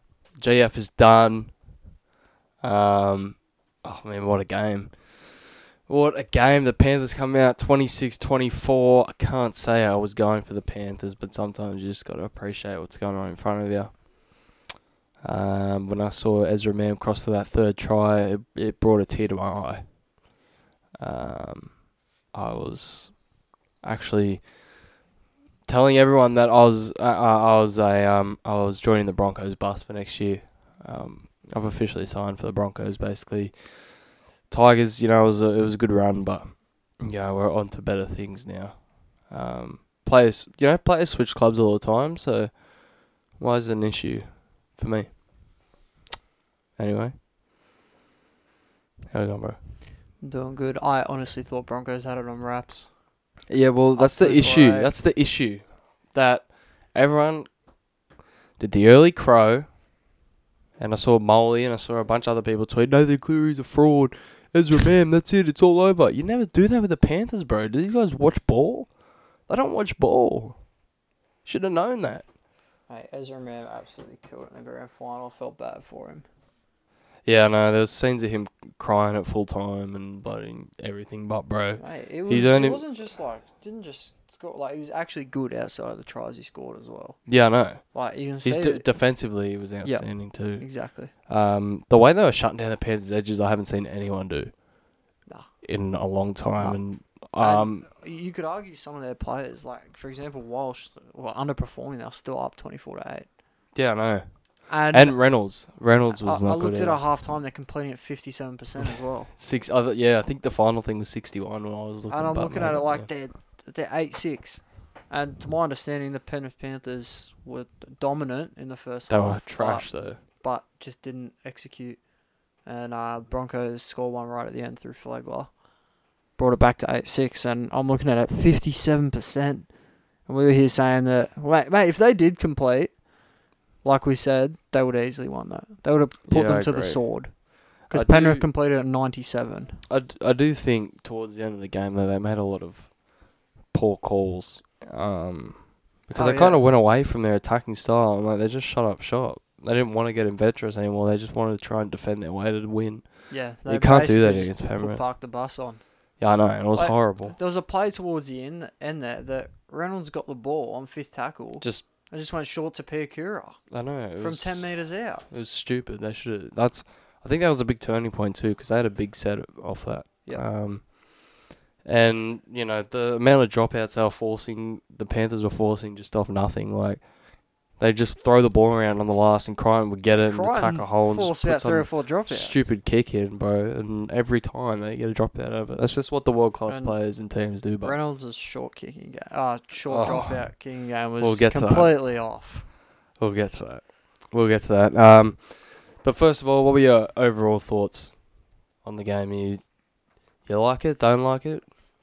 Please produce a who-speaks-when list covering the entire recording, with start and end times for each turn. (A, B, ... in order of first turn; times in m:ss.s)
0:00.4-0:01.6 A
0:02.6-0:14.1 A
0:15.2-0:20.0 A
0:21.0-0:23.2 A
0:23.8-0:24.6 A
0:25.7-0:42.7 A
0:43.3-0:45.2 A
0:46.8-0:47.1 A
0:49.1-0:49.6 A
0:50.2-0:52.9 B
0:53.5-0:57.5 A
0:54.0-0:54.9 B
0:58.6-0:59.8 A
1:00.8-1:08.9 A
1:09.5-1:10.6 A
1:11.4-1:12.3 A
1:12.9-1:16.2 B
1:17.3-1:22.8 A
1:21.8-1:27.3 B
1:27.3-1:27.8 A
1:27.8-1:28.9 B
1:28.4-1:34.5 A
1:29.8-1:31.1 B
1:35.6-1:37.9 A
1:37.4-1:43.3 B
1:43.8-1:47.0 A
1:44.7-1:45.4 B
1:46.1-1:49.3 B
1:49.4-1:53.1 A
1:52.1-2:02.0 B
1:59.1-2:00.2 A
2:02.6-2:05.6 B
2:06.4-2:13.0 B
2:13.8-2:19.8 B
2:16.3-2:18.5 A
2:19.9-2:23.0 A
2:23.6-2:35.0 A
2:26.2-2:26.6 B
2:33.3-2:35.8 B
2:36.2-2:37.4 A
2:36.8-2:45.3 B
2:43.7-3:08.0 A
3:00.2-3:02.7 B
3:06.7-3:12.7 B
3:09.9-3:12.0 A
3:13.2-3:19.6 A
3:20.4-3:21.6 A